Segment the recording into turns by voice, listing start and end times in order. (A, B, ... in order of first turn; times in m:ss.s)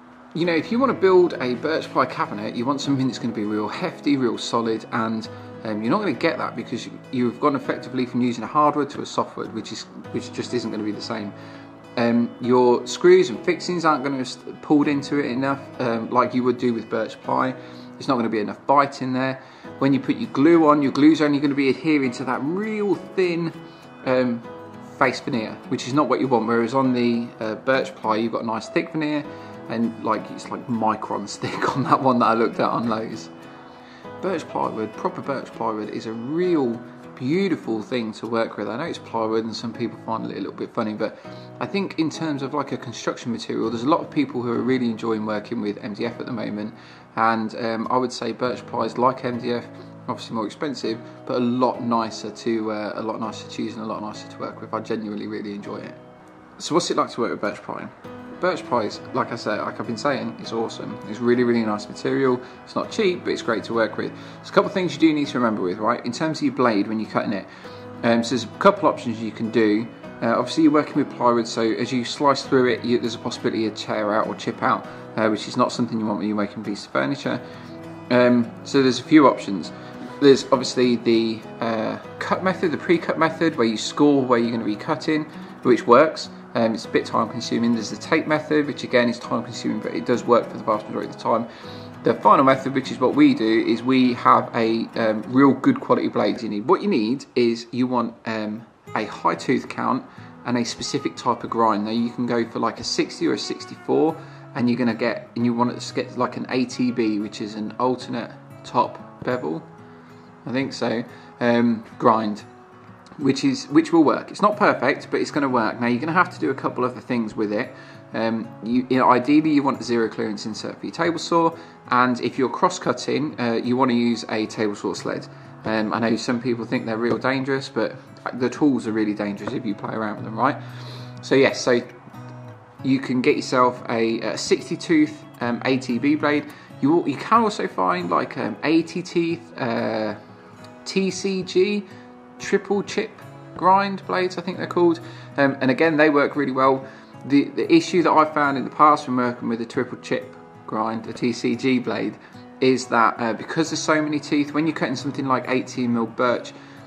0:00.3-0:11.3 A
0:12.0-0:33.3 A
0:34.2-0:56.0 A
0:56.6-1:07.5 A
1:08.0-1:17.4 A
1:18.1-1:31.5 A
1:32.0-1:49.6 A
1:50.4-1:52.4 A
1:53.2-2:10.6 A
2:11.2-2:12.0 A
2:12.8-2:20.2 A
2:20.8-2:21.9 A
2:22.4-2:36.5 A